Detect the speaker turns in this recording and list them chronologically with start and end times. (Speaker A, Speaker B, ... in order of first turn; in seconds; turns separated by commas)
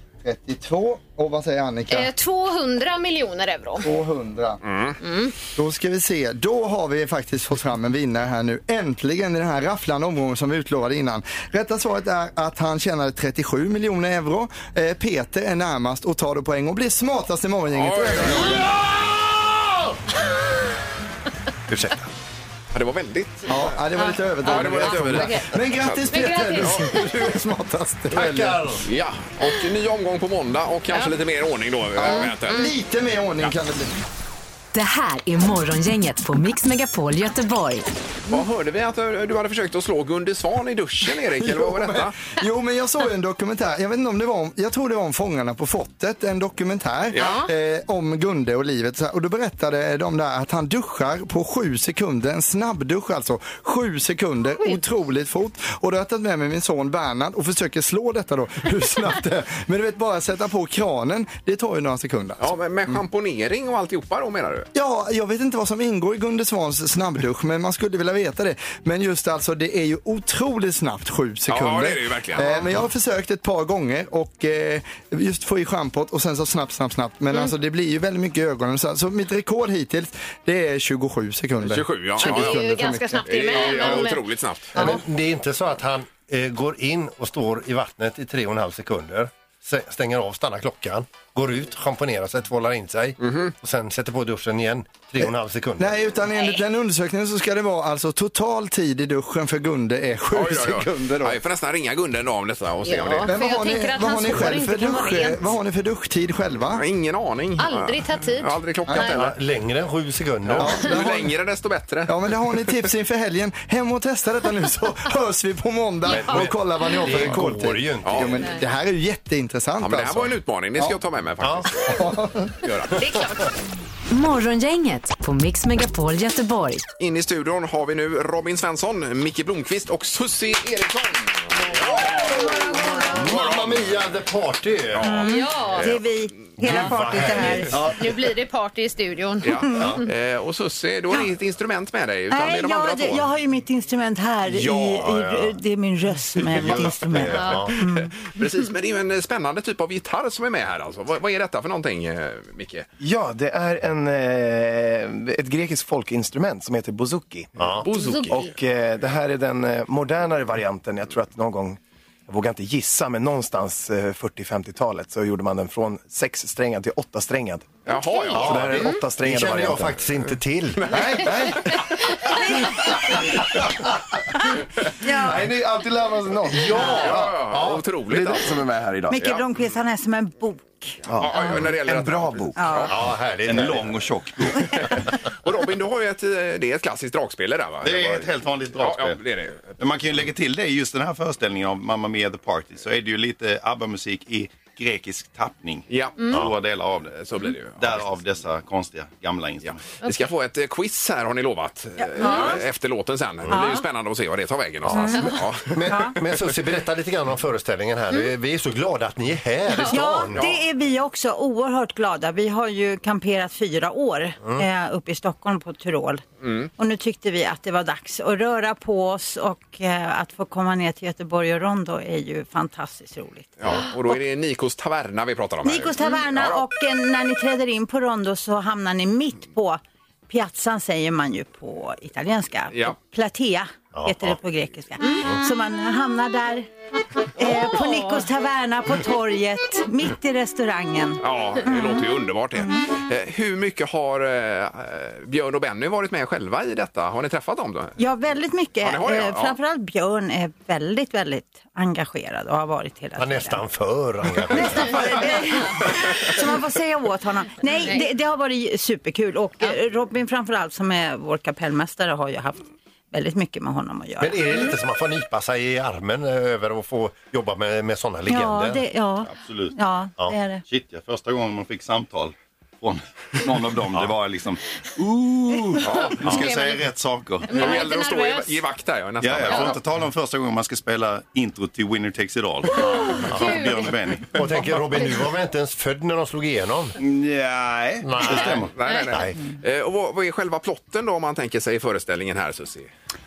Speaker A: 0.2-2.1, Speaker B: 1.9-3.9, Speaker A: 3.8-4.6, Speaker C: 4.6-5.0, Speaker B: 5.0-5.3, Speaker A: 5.5-18.8, Speaker C: 17.7-18.9, Speaker D: 21.7-22.0, Speaker C: 22.7-23.8, Speaker A: 23.5-28.6, Speaker B: 23.9-25.5, Speaker C: 24.4-27.1, Speaker B: 26.1-27.0, Speaker D: 28.1-28.9, Speaker C: 28.8-32.7, Speaker A: 32.0-33.9, Speaker B: 32.0-32.7, Speaker E: 34.7-37.9, Speaker C: 38.3-42.2, Speaker A: 41.3-63.0, Speaker C: 47.1-47.4, Speaker B: 47.1-47.5, Speaker C: 62.4-64.7, Speaker A: 64.7-84.0, Speaker C: 71.5-72.7, Speaker C: 81.6-82.6, Speaker B: 82.2-84.2, Speaker C: 83.2-84.8, Speaker D: 84.7-96.0, Speaker C: 93.2-93.5, Speaker A: 95.2-101.4, Speaker B: 96.3-96.6, Speaker C: 100.3-103.3, Speaker B: 102.8-105.4, Speaker A: 103.2-106.8, Speaker C: 106.7-109.3, Speaker B: 107.6-108.5, Speaker A: 108.9-109.1, Speaker D: 109.0-110.9, Speaker C: 110.4-112.7, Speaker A: 110.6-111.3, Speaker A: 112.1-121.0, Speaker B: 116.0-117.0, Speaker D: 116.1-118.5, Speaker C: 118.0-118.4, Speaker C: 119.8-122.9, Speaker D: 121.4-121.7, Speaker A: 121.8-122.6, Speaker B: 122.9-123.5, Speaker E: 124.1-126.8, Speaker C: 127.0-133.9, Speaker D: 131.7-135.2, Speaker C: 134.9-136.8, Speaker F: 135.1-137.8, Speaker B: 135.2-135.8, Speaker D: 136.6-137.9, Speaker B: 137.9-140.1, Speaker C: 139.4-143.3, Speaker F: 142.3-148.1, Speaker C: 144.5-145.2, Speaker D: 145.0-145.5, Speaker D: 146.4-147.8, Speaker B: 147.3-147.6, Speaker C: 147.7-152.9, Speaker G: 153.0-167.8, Speaker D: 157.6-157.8, Speaker C: 157.8-158.3, Speaker B: 157.9-158.5, Speaker C: 167.8-168.8, Speaker B: 167.9-169.0, Speaker G: 168.3-170.0, Speaker D: 168.3-171.3, Speaker C: 170.9-171.2, Speaker F: 175.0-175.4, Speaker G: 175.4-176.6, Speaker D: 176.5-177.8, Speaker F: 176.7-177.0, Speaker C: 176.8-178.5, Speaker G: 178.1-179.1, Speaker F: 179.1-181.0, Speaker C: 179.2-179.5, Speaker C: 181.2-182.9, Speaker H: 181.7-182.3, Speaker G: 181.9-182.5, Speaker F: 182.6-182.9, Speaker D: 182.9-183.9, Speaker H: 183.4-184.9, Speaker C: 185.4-189.7, Speaker H: 187.8-189.2, Speaker H: 189.8-197.2, Speaker C: 195.9-196.4, Speaker C: 197.2-198.1, Speaker H: 197.8-199.8, Speaker C: 199.7-206.1, Speaker F: 202.2-202.6, Speaker B: 202.2-202.5, Speaker F: 203.5-203.8, Speaker D: 204.8-210.4, Speaker F: 204.9-205.3, Speaker F: 205.8-206.1, Speaker B: 209.7-210.0, Speaker F: 209.9-216.2, Speaker C: 210.3-210.6, Speaker C: 216.4-216.7, Speaker F: 216.8-224.1, Speaker C: 223.6-226.6, Speaker F: 225.6-236.7, Speaker C: 232.7-233.0, Speaker D: 233.9-234.4, Speaker F: 237.3-242.8, Speaker C: 241.2-247.9, Speaker F: 248.0-253.6, Speaker C: 248.8-249.6, Speaker D: 253.2-255.4, Speaker F: 254.4-264.6, Speaker D: 264.2-268.9, Speaker F: 268.3-270.6, Speaker H: 269.2-269.8, Speaker H: 270.6-277.7, Speaker B: 275.8-276.8, Speaker C: 275.8-276.5, Speaker B: 277.4-278.6, Speaker C: 277.5-279.8, Speaker H: 279.2-284.4, Speaker B: 279.4-279.8, Speaker B: 282.7-283.9, Speaker D: 283.3-283.6, Speaker D: 284.3-287.0, Speaker H: 287.0-288.7, Speaker D: 288.0-289.4, Speaker C: 288.4-292.9